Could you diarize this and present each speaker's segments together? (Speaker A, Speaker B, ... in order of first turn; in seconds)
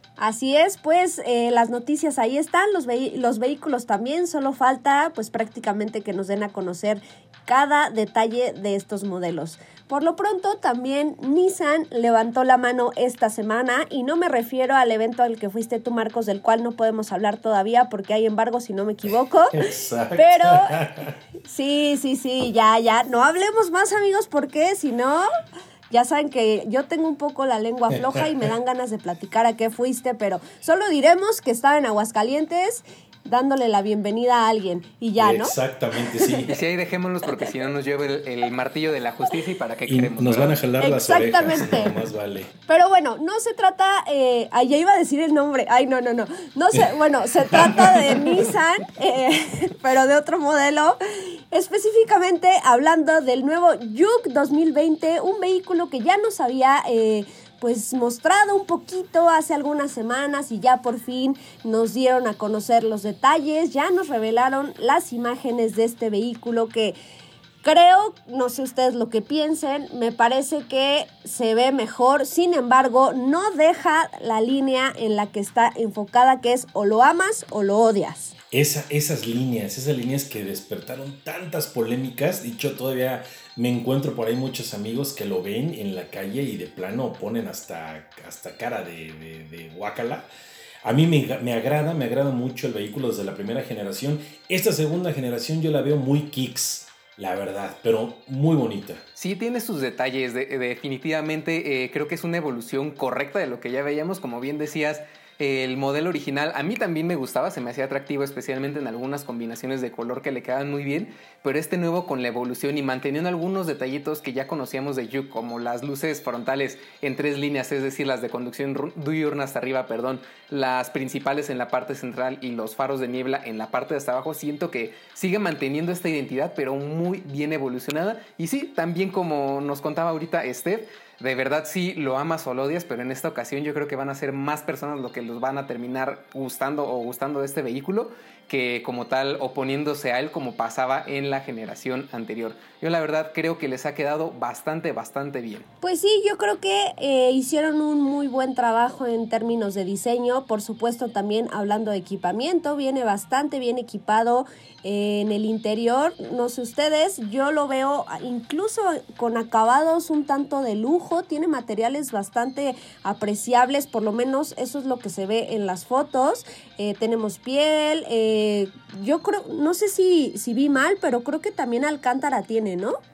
Speaker A: 0.2-20.8, 21.4-25.3, 25.9-35.5, 40.8-42.0, 42.7-67.0, 67.6-78.3, 145.8-173.0
Speaker B: 19.5-21.1, 28.0-28.4, 35.2-36.5, 39.9-42.5, 47.5-48.4, 78.5-90.3, 90.8-99.0
Speaker C: 36.5-40.6, 99.2-145.7